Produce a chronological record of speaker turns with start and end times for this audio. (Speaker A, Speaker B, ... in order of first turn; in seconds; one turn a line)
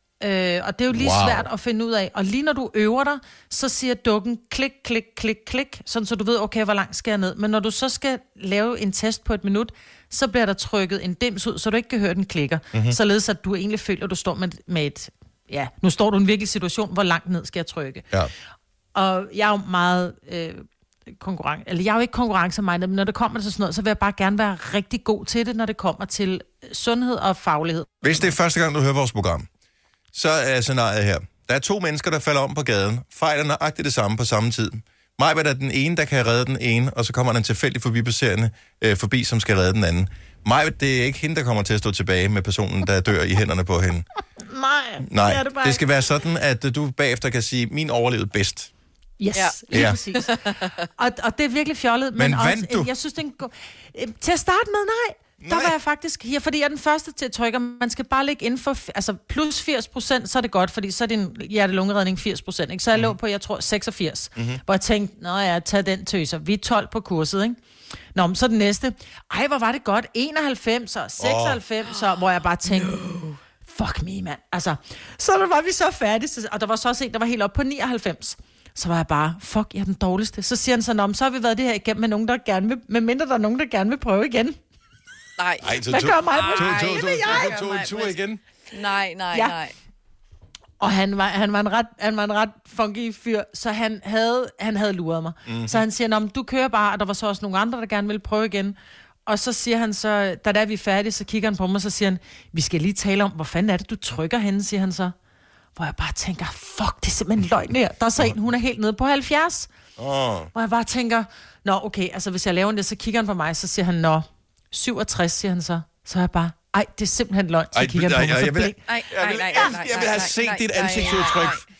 Speaker A: 0.2-18.1
Speaker B: 0.9-1.5
Speaker A: 18.9-28.3
Speaker B: 28.0-29.5
Speaker B: 30.1-44.0
Speaker A: 44.5-45.8
Speaker B: 45.0-48.7
Speaker A: 49.2-50.4
Speaker C: 49.3-49.6
Speaker B: 49.7-50.0
Speaker C: 50.2-50.6
Speaker A: 51.0-67.6
Speaker B: 52.2-52.9
Speaker B: 55.4-55.7
Speaker B: 64.3-64.6
Speaker A: 68.1-73.0
Speaker B: 71.2-71.6
Speaker C: 71.9-73.4
Speaker A: 73.6-84.6
Speaker C: 85.4-88.2
Speaker B: 85.6-88.4
Speaker A: 85.9-87.5
Speaker C: 88.7-89.7
Speaker A: 90.8-105.1
Speaker B: 95.5-95.8
Speaker A: 105.8-109.7
Speaker B: 110.0-110.5
Speaker A: 110.5-118.8
Speaker B: 117.7-121.6
Speaker C: 118.9-121.6